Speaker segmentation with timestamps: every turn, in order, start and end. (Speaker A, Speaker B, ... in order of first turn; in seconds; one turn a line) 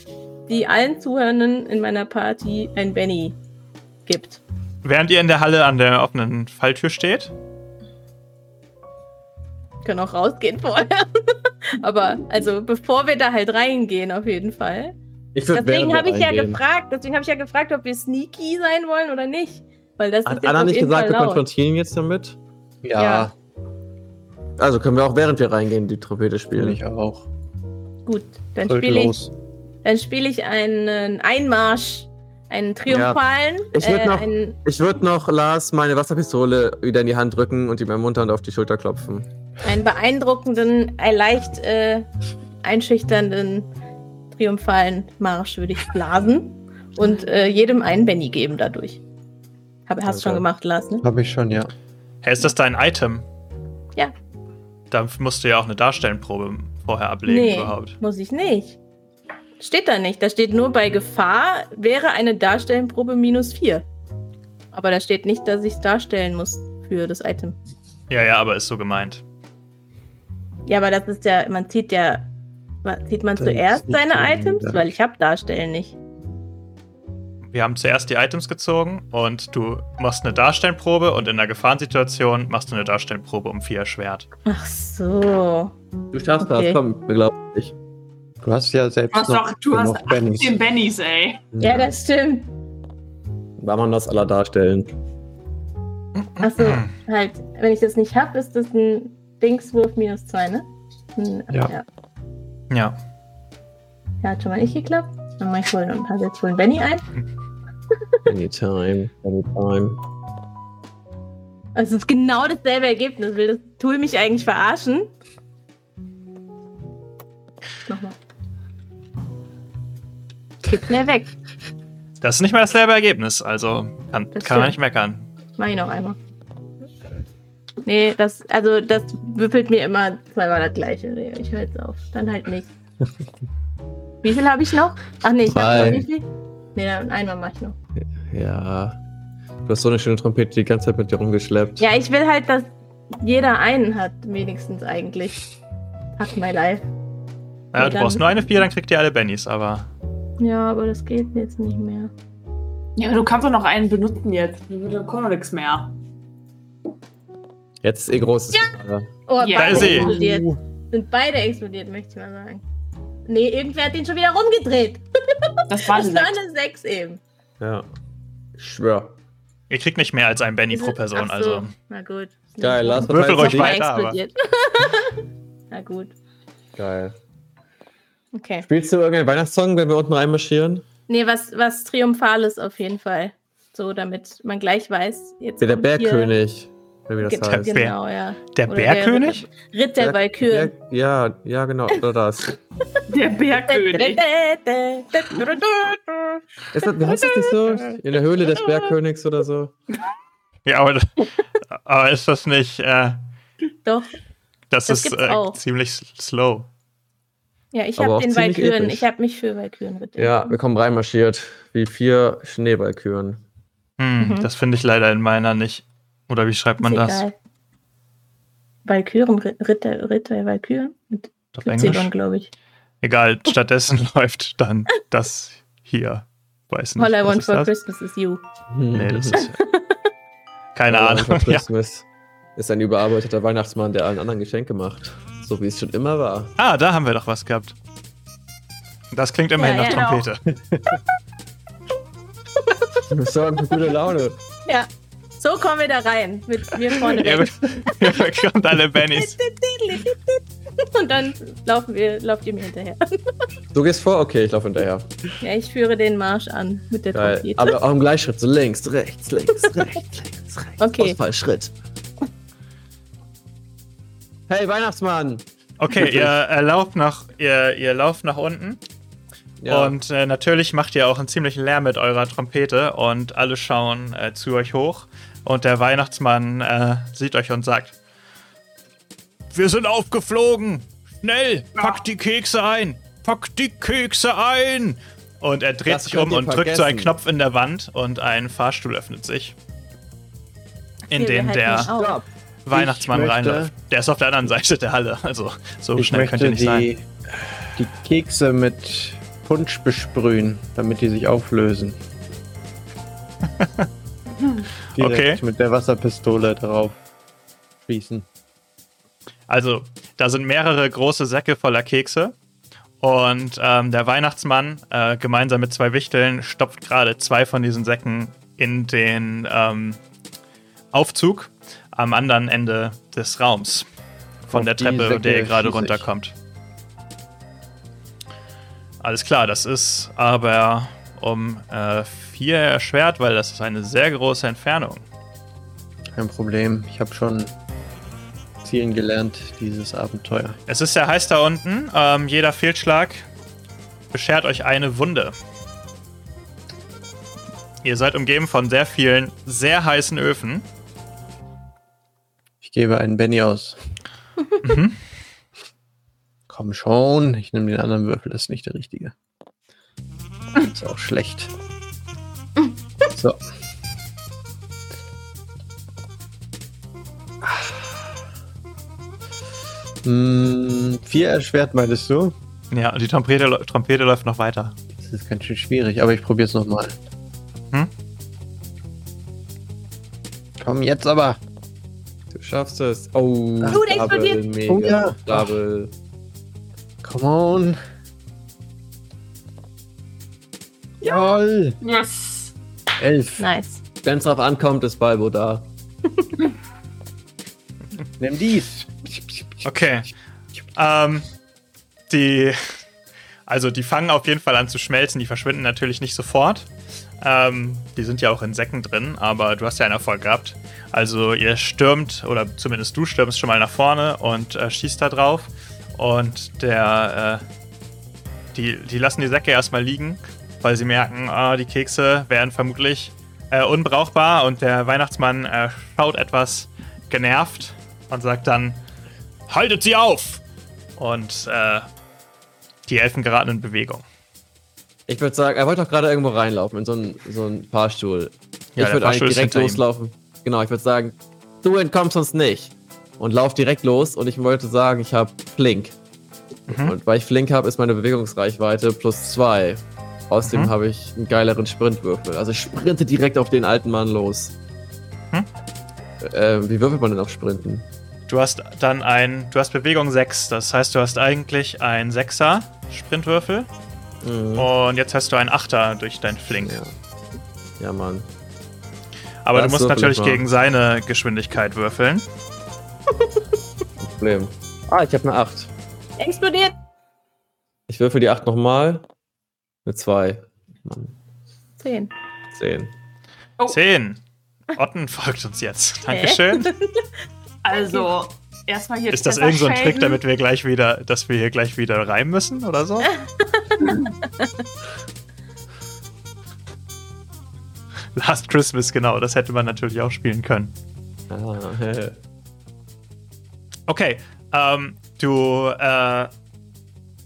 Speaker A: 0.5-3.4
Speaker A: 4.1-4.4
Speaker B: 4.8-7.3
Speaker A: 9.8-14.9
Speaker C: 15.3-16.6
Speaker A: 15.5-21.4
Speaker C: 20.3-22.4
Speaker D: 22.8-23.3
Speaker A: 23.0-23.3
Speaker C: 24.6-26.8
Speaker D: 26.6-27.3
Speaker A: 28.1-29.2
Speaker D: 28.6-29.3
Speaker A: 29.8-34.6
Speaker C: 32.9-33.2
Speaker C: 33.7-39.3
Speaker A: 39.6-42.1
Speaker A: 42.6-43.7
Speaker A: 44.3-49.0
Speaker A: 49.9-51.0
Speaker C: 50.1-50.4
Speaker D: 51.0-51.7
Speaker B: 52.2-53.2
Speaker B: 54.9-58.0
Speaker A: 57.3-58.8
Speaker A: 59.6-63.8
Speaker A: 64.7-67.6
Speaker B: 68.1-69.2
Speaker A: 70.7-72.3
Speaker A: 72.8-76.0
Speaker D: 73.4-74.9
Speaker B: 77.5-84.3
Speaker A: 84.5-85.7
Speaker C: 86.1-87.8
Speaker A: 86.4-86.8
Speaker D: 88.4-90.6
Speaker E: 89.1-91.4
Speaker C: 91.5-91.9
Speaker A: 91.6-92.5
Speaker C: 93.6-94.9
Speaker B: 96.4-96.9
Speaker A: 96.4-101.8
Speaker B: 102.7-103.0
Speaker A: 104.2-107.0
Speaker C: 108.3-110.0
Speaker A: 111.8-115.1
Speaker A: 117.9-118.2
Speaker A: 120.7-121.3
Speaker B: 122.2-125.3
Speaker A: 124.4-124.8
Speaker A: 125.6-126.2
Speaker A: 127.8-132.7
Speaker A: 134.2-137.8
Speaker C: 135.5-136.0
Speaker C: 138.0-139.0
Speaker C: 139.7-141.8
Speaker A: 141.8-142.7
Speaker A: 143.2-145.4
Speaker A: 146.2-146.8
Speaker B: 147.7-149.9
Speaker A: 147.8-148.4
Speaker A: 150.4-152.1
Speaker E: 153.0-155.9
Speaker C: 157.8-159.2
Speaker A: 159.3-162.6
Speaker E: 159.4-160.2
Speaker B: 159.6-160.2
Speaker A: 163.3-167.2
Speaker E: 165.7-166.4
Speaker C: 167.6-167.9
Speaker C: 168.6-169.2
Speaker B: 169.7-171.7
Speaker A: 170.7-176.1
Speaker C: 172.6-173.8
Speaker B: 173.0-174.2
Speaker C: 176.8-177.2
Speaker A: 178.3-178.7
Speaker C: 178.7-180.8
Speaker A: 181.1-186.3
Speaker C: 185.6-187.7
Speaker A: 187.2-190.7
Speaker B: 187.5-188.0
Speaker B: 188.5-189.4
Speaker C: 190.0-192.5
Speaker E: 193.1-194.2
Speaker A: 193.7-196.4
Speaker C: 196.7-199.7
Speaker A: 197.0-197.6
Speaker B: 200.7-203.2
Speaker A: 203.8-204.1
Speaker B: 204.7-206.7
Speaker A: 204.9-205.6
Speaker A: 207.7-210.6
Speaker C: 208.0-209.0
Speaker C: 210.2-213.4
Speaker B: 214.0-217.3
Speaker A: 214.2-214.5
Speaker A: 216.8-217.3
Speaker A: 218.8-222.5
Speaker B: 221.6-222.1
Speaker B: 223.0-227.7
Speaker A: 227.0-228.4
Speaker C: 228.7-229.4
Speaker B: 228.9-229.5
Speaker A: 229.3-230.0
Speaker B: 230.8-231.7
Speaker C: 230.9-236.5
Speaker B: 236.6-237.8
Speaker B: 239.1-240.4
Speaker A: 239.6-240.3
Speaker C: 243.1-244.4
Speaker A: 245.4-247.6
Speaker B: 247.1-249.4
Speaker A: 249.1-253.0
Speaker C: 253.7-255.2
Speaker A: 255.4-257.8
Speaker C: 257.1-261.7
Speaker A: 260.8-261.2
Speaker C: 264.5-265.4
Speaker B: 265.8-268.8
Speaker C: 266.0-266.3
Speaker C: 269.6-270.0
Speaker B: 269.7-277.9
Speaker B: 279.5-289.6
Speaker E: 281.8-282.0
Speaker C: 285.9-287.1
Speaker B: 291.1-291.9
Speaker A: 291.1-292.2
Speaker C: 291.9-292.2
Speaker B: 292.6-296.9
Speaker D: 292.7-293.7
Speaker D: 296.0-297.1
Speaker D: 297.8-302.0
Speaker B: 303.6-303.9
Speaker D: 304.9-307.0
Speaker B: 305.0-305.4
Speaker D: 307.8-308.3
Speaker B: 309.5-312.4
Speaker B: 313.0-320.0
Speaker B: 320.9-323.9
Speaker B: 324.5-326.3
Speaker D: 324.5-326.1
Speaker B: 329.0-335.1
Speaker D: 336.1-337.5
Speaker D: 338.6-340.6
Speaker B: 340.7-343.3
Speaker B: 344.1-345.3
Speaker B: 347.8-350.6
Speaker D: 352.6-353.8
Speaker B: 354.6-355.0
Speaker D: 356.5-359.1
Speaker D: 360.6-361.5
Speaker D: 367.4-367.9
Speaker D: 370.1-372.4
Speaker B: 372.7-374.8
Speaker D: 375.0-377.0
Speaker D: 380.6-381.4
Speaker C: 382.3-385.9
Speaker D: 383.6-384.0
Speaker E: 383.7-384.4
Speaker D: 384.7-385.6
Speaker D: 387.0-387.8
Speaker D: 391.0-391.8
Speaker E: 391.8-392.5
Speaker D: 393.0-393.4
Speaker A: 393.4-393.8
Speaker C: 394.0-395.7
Speaker D: 398.2-400.0
Speaker B: 399.6-400.1
Speaker B: 400.8-401.2
Speaker B: 402.1-402.8
Speaker B: 403.5-406.7
Speaker B: 407.2-417.4
Speaker B: 418.5-428.8
Speaker B: 429.5-430.4
Speaker B: 431.0-431.9
Speaker B: 432.9-434.0
Speaker C: 435.1-445.9
Speaker B: 438.8-439.8
Speaker B: 446.7-446.9
Speaker C: 446.7-454.5
Speaker B: 450.5-450.7
Speaker C: 456.2-457.9
Speaker B: 458.3-463.7
Speaker C: 464.2-464.7
Speaker B: 464.6-466.8
Speaker C: 466.6-466.9
Speaker C: 467.8-468.3
Speaker B: 469.4-472.3
Speaker C: 469.5-470.4
Speaker C: 474.0-475.7
Speaker A: 476.2-476.7
Speaker C: 477.9-479.0
Speaker C: 479.9-481.1
Speaker A: 481.8-482.1
Speaker C: 482.5-482.9
Speaker B: 483.7-484.2
Speaker B: 484.7-486.7
Speaker A: 486.1-487.0
Speaker E: 487.6-490.2
Speaker A: 487.7-488.1
Speaker B: 489.1-493.1
Speaker A: 493.1-494.5
Speaker B: 498.2-500.7
Speaker C: 501.3-502.2
Speaker B: 503.9-506.3